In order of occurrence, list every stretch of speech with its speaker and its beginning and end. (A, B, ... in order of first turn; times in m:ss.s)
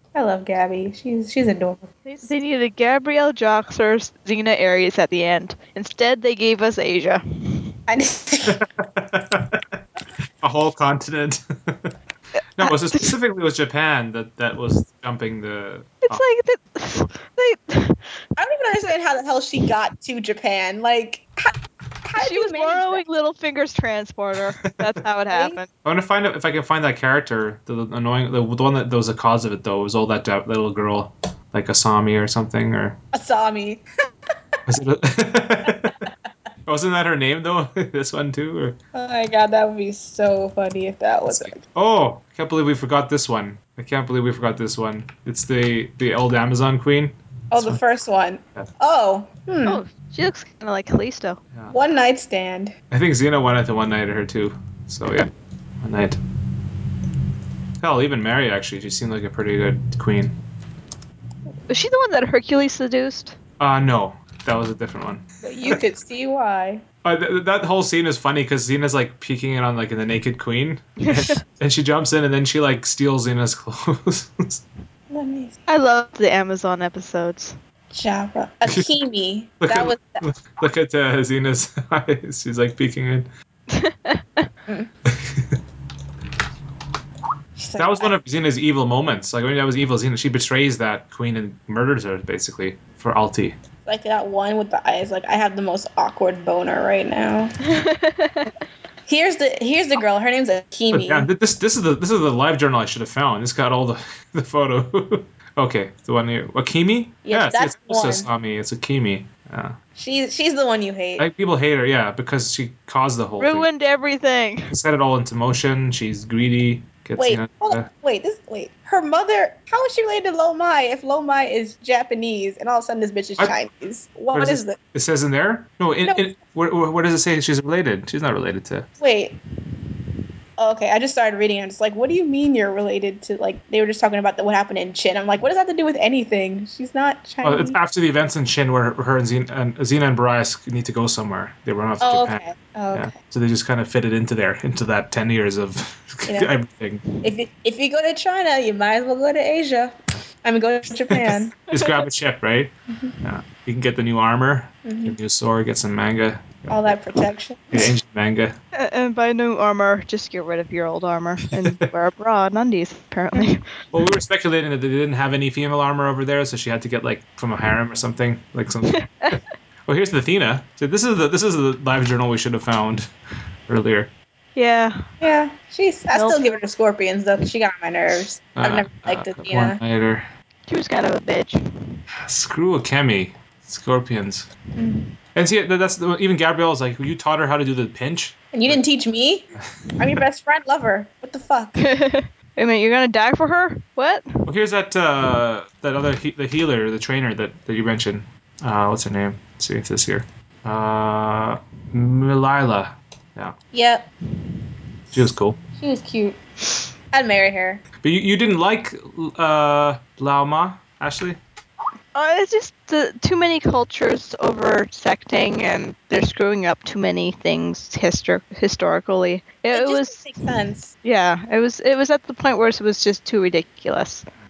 0:00.1-0:02.2 A
0:02.0-0:07.7 B
0:07.9-0:08.6 A
0:08.4-0:09.8 C
0:10.4-0:11.9 C
0:12.6-0:16.2 C
0:12.7-0:13.0 B
0:16.0-0:18.1 B
0:18.4-0:21.5 A
0:22.0-0:23.0 A
0:22.2-0:25.7 B
0:25.3-0:25.6 A
0:25.8-0:33.0 C
0:33.1-0:33.8 A
0:34.7-0:36.1 C
0:36.7-0:38.8 C
0:38.9-0:41.6 A
0:41.3-0:47.8 C
0:47.5-0:49.8 A
0:49.7-0:51.4 B
0:51.7-0:52.7 A
0:52.9-0:55.3 C
0:55.8-0:56.2 C
0:57.8-1:00.4 C
1:01.7-1:03.4 B
1:03.6-1:05.8 C
1:05.4-1:06.8 A
1:07.0-1:14.6 C
1:11.0-1:11.4 B
1:15.1-1:15.6 A
1:15.7-1:17.6 B
1:17.9-1:20.3 A
1:19.6-1:23.3 C
1:23.7-1:24.5 B
1:25.1-1:25.6 C
1:27.6-1:28.2 A
1:27.8-1:33.6 C
1:33.8-1:37.6 A
1:37.6-1:38.5 B
1:39.1-1:41.3 A
1:40.9-1:49.8 C
1:47.2-1:48.3 A
1:50.0-1:51.3 A
1:51.2-1:53.7 C
1:53.4-1:54.7 B
1:54.7-1:57.9 C
1:57.2-2:04.8 A
2:04.3-2:08.9 C
2:09.0-2:09.4 A
2:10.6-2:17.8 A
2:17.4-2:27.1 C
2:22.0-2:23.2 A
2:26.3-2:26.5 A
2:27.2-2:31.5 A
2:31.1-2:37.0 C
2:34.8-2:35.2 A
2:36.7-2:37.9 A
2:37.7-2:38.6 C
2:38.8-2:43.6 B
2:43.9-2:49.3 C
2:48.9-2:49.4 B
2:49.9-2:53.1 C
2:53.7-2:54.1 C
2:54.6-2:55.0 B
2:55.2-2:59.8 A
2:56.1-2:56.6 B
2:58.6-3:00.3 C
3:00.7-3:02.0 B
3:02.2-3:04.5 C
3:04.8-3:05.0 A
3:05.4-3:08.8 C
3:08.5-3:09.5 A
3:10.0-3:11.8 A
3:11.8-3:14.5 B
3:14.5-3:23.6 C
3:23.7-3:24.1 A
3:25.1-3:25.6 C
3:25.8-3:26.4 A
3:27.1-3:27.8 A
3:28.0-3:31.4 C
3:32.2-3:40.2 B
3:39.7-3:40.9 A
3:41.0-3:44.3 B